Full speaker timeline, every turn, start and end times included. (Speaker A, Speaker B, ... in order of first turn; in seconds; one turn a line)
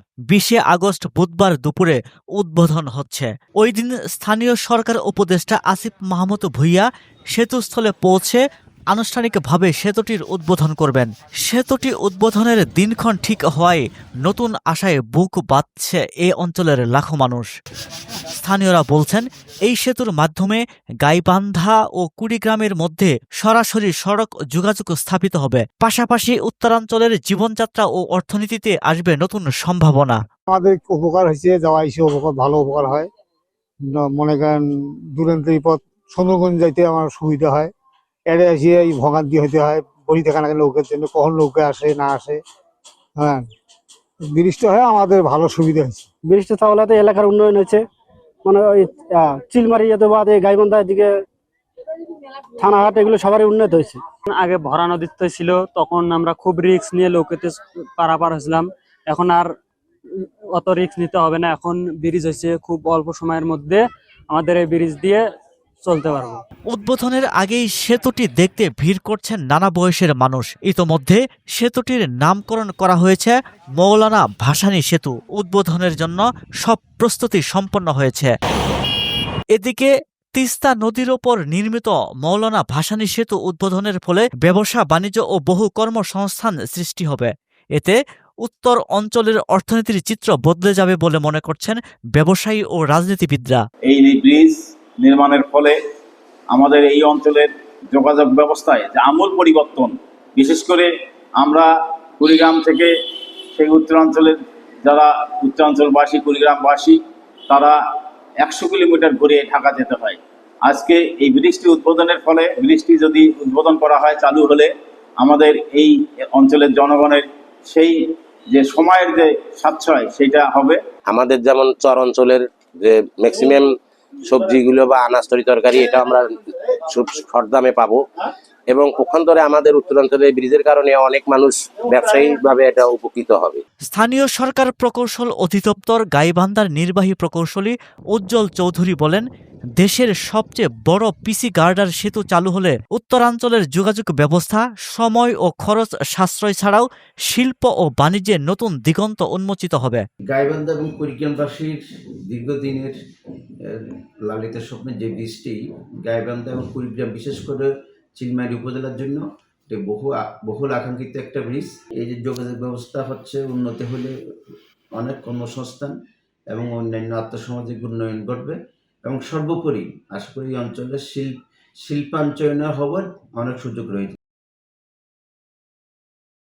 Speaker A: 0.3-8.4
Speaker A: 8.9-17.5
Speaker A: 18.3-30.2
Speaker B: 30.5-33.1
Speaker B: 33.8-34.6
Speaker B: 35.1-37.7
Speaker B: 38.3-42.4
Speaker B: 43.2-43.5
Speaker B: 44.2-46.0
Speaker C: 46.3-47.8
Speaker C: 48.5-51.1
Speaker C: 52.6-54.0
Speaker D: 54.3-59.5
Speaker D: 60.5-65.2
Speaker D: 65.8-66.4
Speaker A: 66.7-78.3
Speaker A: 79.5-93.6
Speaker E: 93.9-95.8
Speaker E: 96.5-102.9
Speaker E: 103.5-107.8
Speaker E: 108.4-118.0
Speaker E: 118.5-120.8
Speaker F: 121.1-123.7
Speaker F: 124.2-128.0
Speaker F: 128.7-133.6
Speaker A: 133.9-139.2
Speaker A: 139.8-150.0
Speaker G: 150.3-152.9
Speaker G: 154.3-164.1
Speaker G: 164.9-165.9
Speaker G: 166.5-171.3
Speaker G: 171.8-174.2